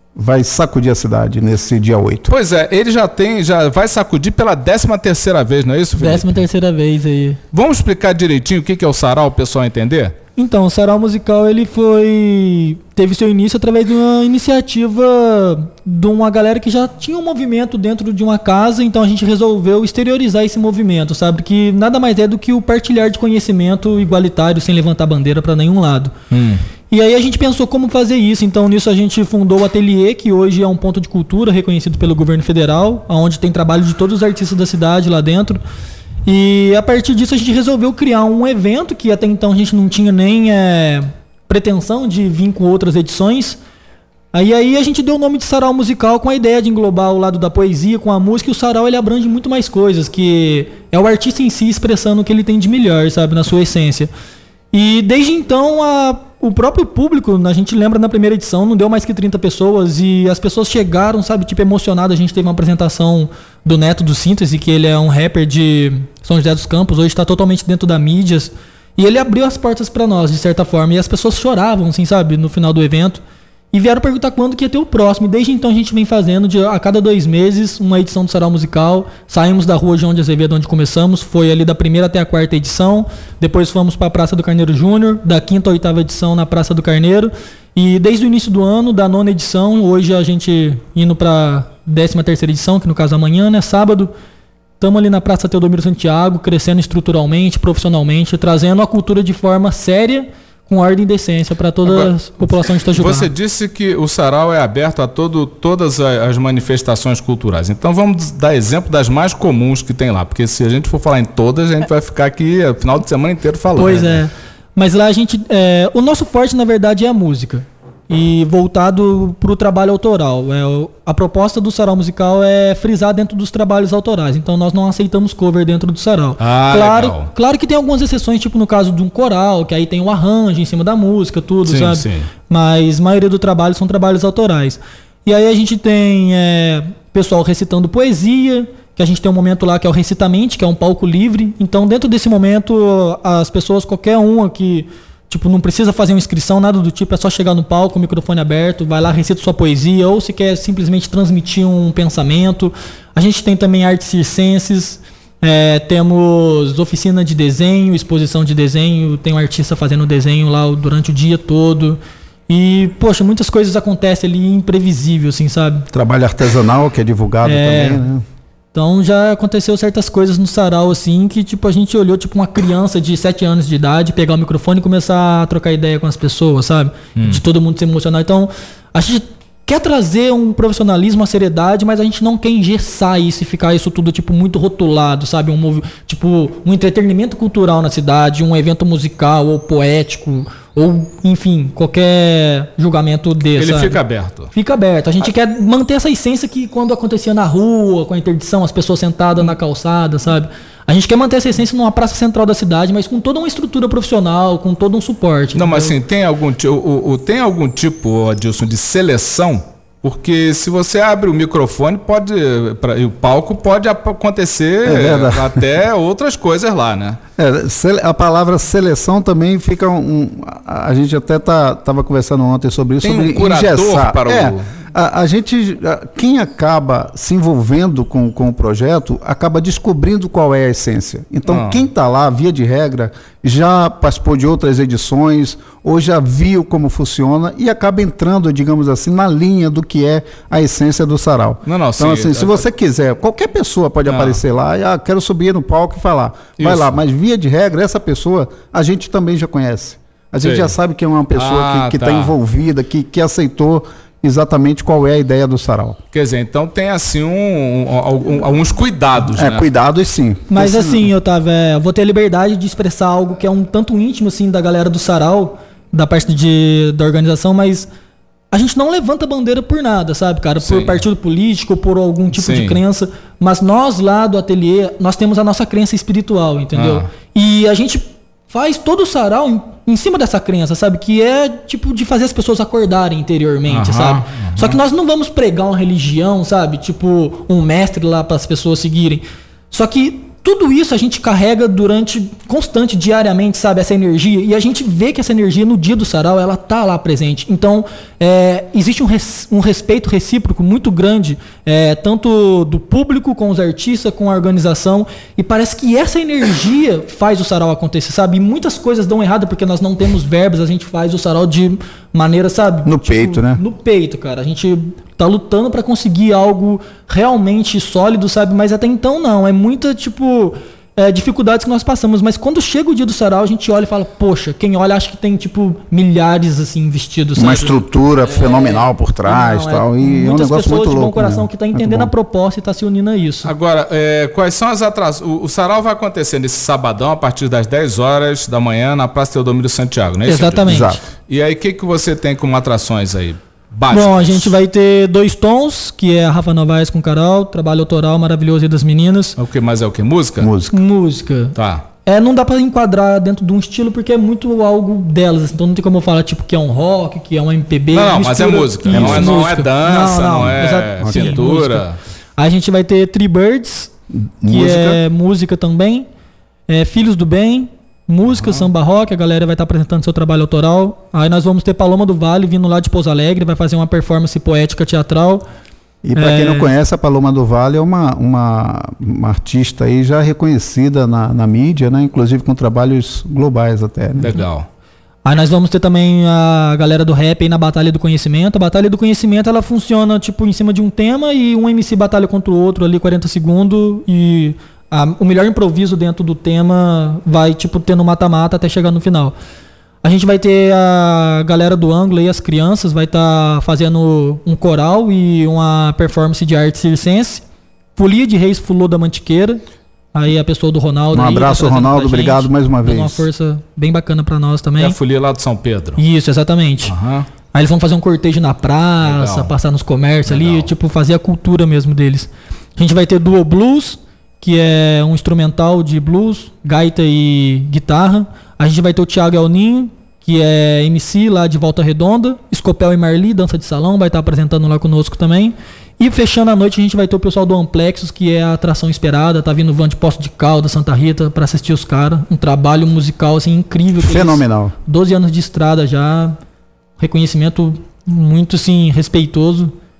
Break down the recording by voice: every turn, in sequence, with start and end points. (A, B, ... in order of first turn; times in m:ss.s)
0:00.1-0:02.3 A
0:02.3-0:06.4 B
0:06.0-0:07.4 C
0:07.5-0:10.1 B
0:10.4-0:26.1 C
0:26.3-0:26.6 B
0:26.9-0:35.6 C
0:36.2-0:43.6 C
0:44.3-0:54.1 C
0:54.7-1:34.1 C
1:34.8-1:43.3 C
1:41.8-1:42.1 B
1:42.9-1:54.2 B
1:53.7-2:45.9 C
2:06.4-2:07.3 B
2:11.6-2:12.3 B
2:45.9-2:48.2 A
2:47.4-2:48.0 C
2:48.7-3:14.0 C
2:57.2-2:57.4 B
3:13.6-3:14.5 B
3:14.5-3:26.0 C
3:25.5-3:37.2 B
3:34.8-3:35.6 A
3:37.4-4:16.0 A
3:43.0-3:44.7 B
3:51.4-3:51.9 B
4:01.6-4:02.7 B
4:04.0-4:04.4 B
4:06.6-4:07.0 B
4:10.4-4:10.7 B
4:11.3-4:12.3 B
4:16.1-4:19.6 B
4:19.3-4:21.1 A
4:20.5-4:27.9 C
4:28.5-5:33.5 C
4:30.6-4:31.0 B
4:32.3-4:32.8 B
4:36.7-4:37.0 B
4:43.7-4:44.8 B
5:12.8-5:13.6 A
5:27.4-5:32.1 A
5:33.4-5:44.5 B
5:40.2-5:40.9 C
5:40.6-5:41.0 A
5:43.9-5:49.4 C
5:49.4-5:50.5 B
5:50.4-5:50.8 A
5:50.7-6:01.8 C
5:51.5-5:51.8 B
5:57.9-6:02.0 B
5:58.9-5:59.5 A
6:00.3-6:01.4 A
6:02.4-6:03.9 C
6:04.1-6:05.0 A
6:04.4-6:06.0 C
6:06.7-6:15.4 C
6:08.3-6:08.7 B
6:16.0-6:24.4 A
6:16.1-6:16.7 C
6:24.2-6:24.7 B
6:25.2-6:39.3 C
6:40.0-6:47.4 C
6:48.0-6:49.6 C
6:50.1-6:55.0 C
6:51.1-6:53.2 A
6:54.8-6:56.0 B
6:56.0-6:56.9 C
6:56.8-6:57.3 B
6:57.5-7:26.4 C
6:59.0-6:59.5 B
7:00.2-7:00.7 B
7:24.0-7:24.7 A
7:27.0-7:29.7 C